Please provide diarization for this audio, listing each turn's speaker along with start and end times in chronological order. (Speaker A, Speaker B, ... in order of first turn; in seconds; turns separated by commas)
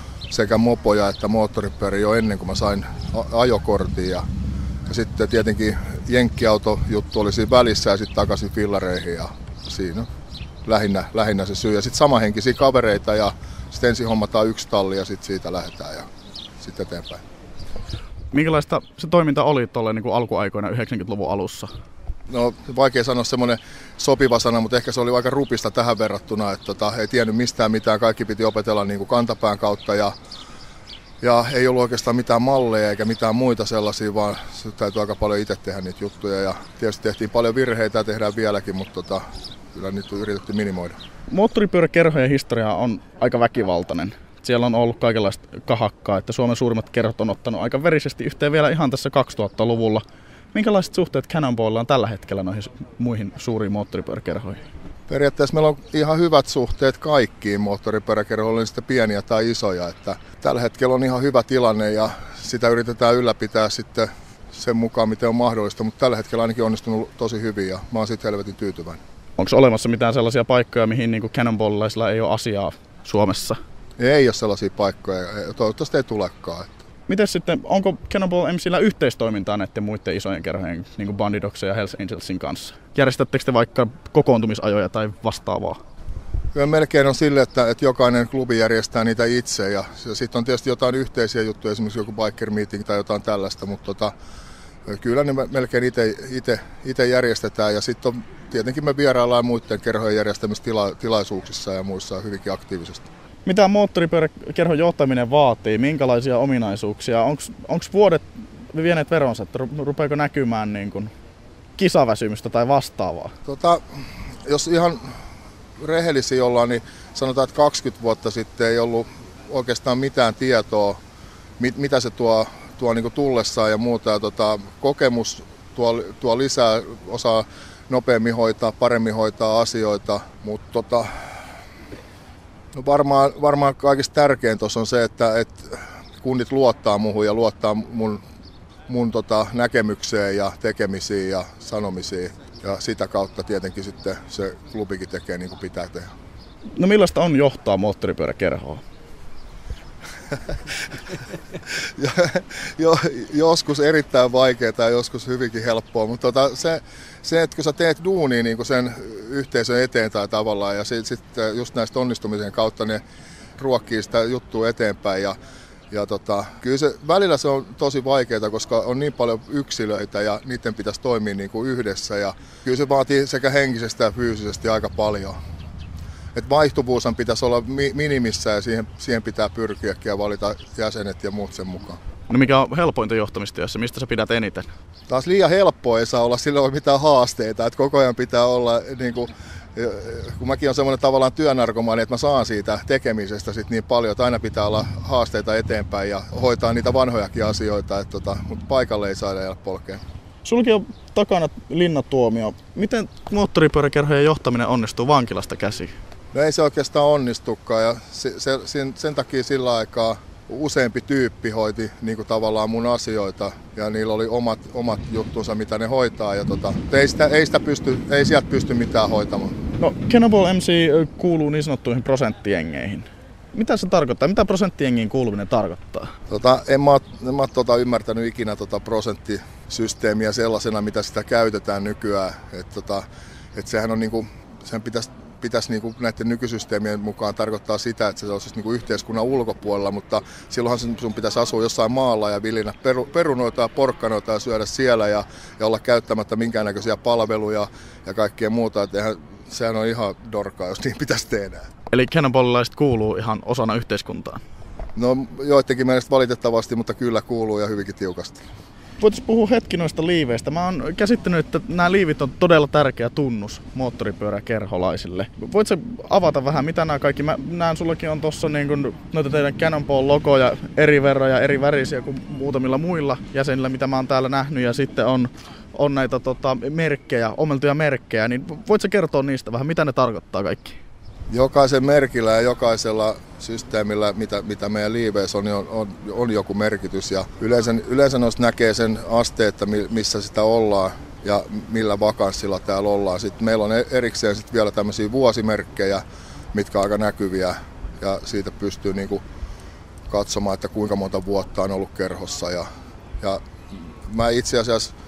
Speaker A: 0.3-4.2, Speaker A: 4.9-10.1, Speaker A: 10.7-16.1, Speaker A: 16.6-17.2, Speaker B: 18.3-21.7, Speaker A: 22.3-30.1, Speaker A: 31.2-41.0, Speaker B: 41.3-54.6, Speaker A: 55.1-69.0, Speaker B: 69.4-73.6, Speaker A: 74.0-76.8, Speaker B: 77.1-85.8, Speaker A: 86.5-94.1, Speaker A: 94.9-103.1, Speaker B: 103.4-111.1, Speaker B: 111.8-113.3, Speaker A: 113.5-115.2, Speaker A: 115.8-121.0, Speaker A: 121.6-131.1, Speaker A: 132.8-138.2, Speaker A: 138.9-146.1, Speaker B: 146.8-148.8, Speaker A: 152.0-163.0, Speaker A: 163.6-165.4, Speaker A: 165.9-175.4, Speaker A: 176.3-182.0, Speaker B: 182.3-184.7, Speaker A: 185.1-200.0, Speaker B: 200.4-205.9, Speaker A: 206.3-219.5, Speaker B: 219.8-226.1, Speaker A: 226.3-251.7, Speaker B: 251.9-254.4, Speaker A: 254.9-258.4, Speaker B: 259.0-280.8, Speaker A: 281.3-296.0, Speaker A: 296.5-299.2, Speaker A: 300.1-302.7, Speaker A: 304.1-304.9